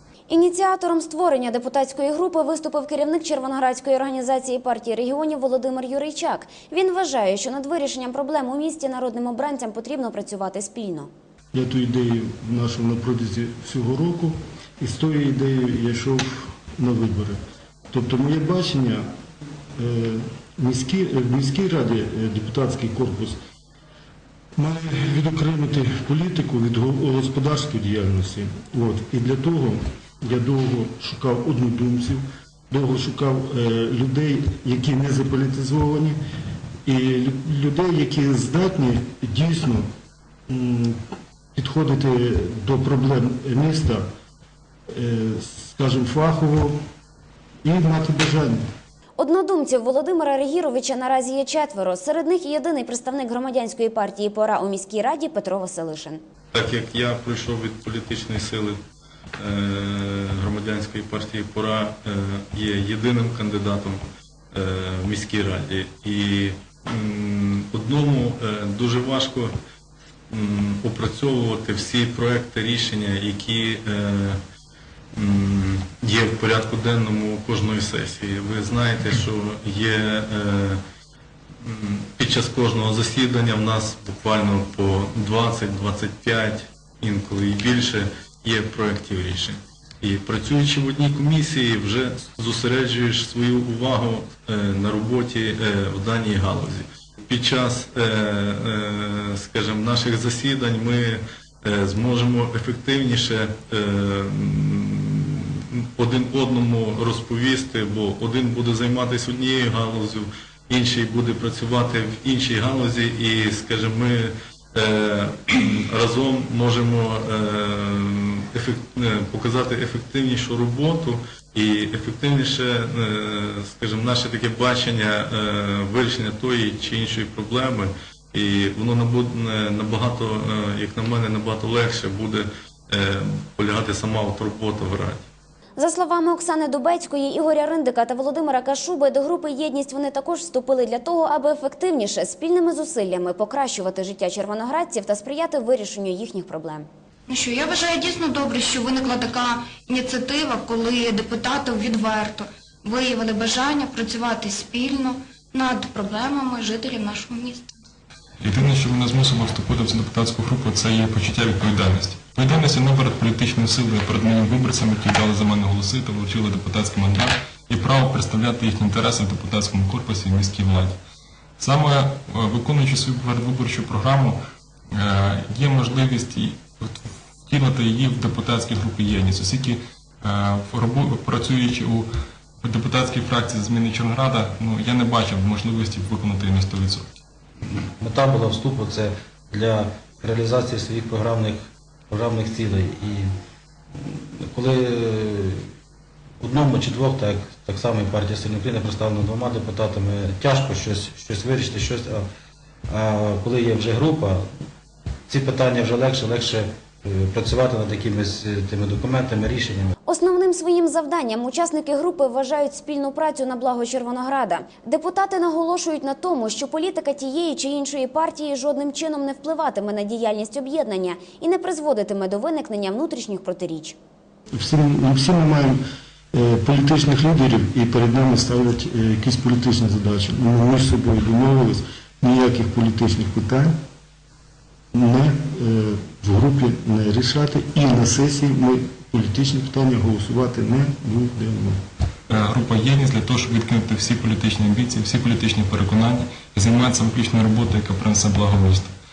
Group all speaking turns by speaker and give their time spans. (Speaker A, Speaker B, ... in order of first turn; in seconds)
Speaker A: 0.3-11.1, 49.2-56.2, 135.8-146.9, 210.1-223.9
Speaker B: 11.5-17.4, 17.9-19.1, 19.8-23.4, 24.6-36.2, 36.9-39.8, 40.5-41.0, 41.5-44.0, 44.9-46.7, 47.6-48.6, 224.5-225.8, 226.3-233.7, 234.9-241.8
Speaker C: 56.5-58.8, 59.4-64.0, 64.5-69.5, 70.3-74.4, 75.2-80.8, 81.6-135.2
Speaker D: 147.3-157.7
Speaker E: 158.4-170.9, 171.6-174.3, 174.9-182.1, 182.6-187.2, 242.3-248.9
Speaker F: 188.0-193.3, 194.0-195.6, 196.4-202.2, 202.9-204.4, 205.3-209.9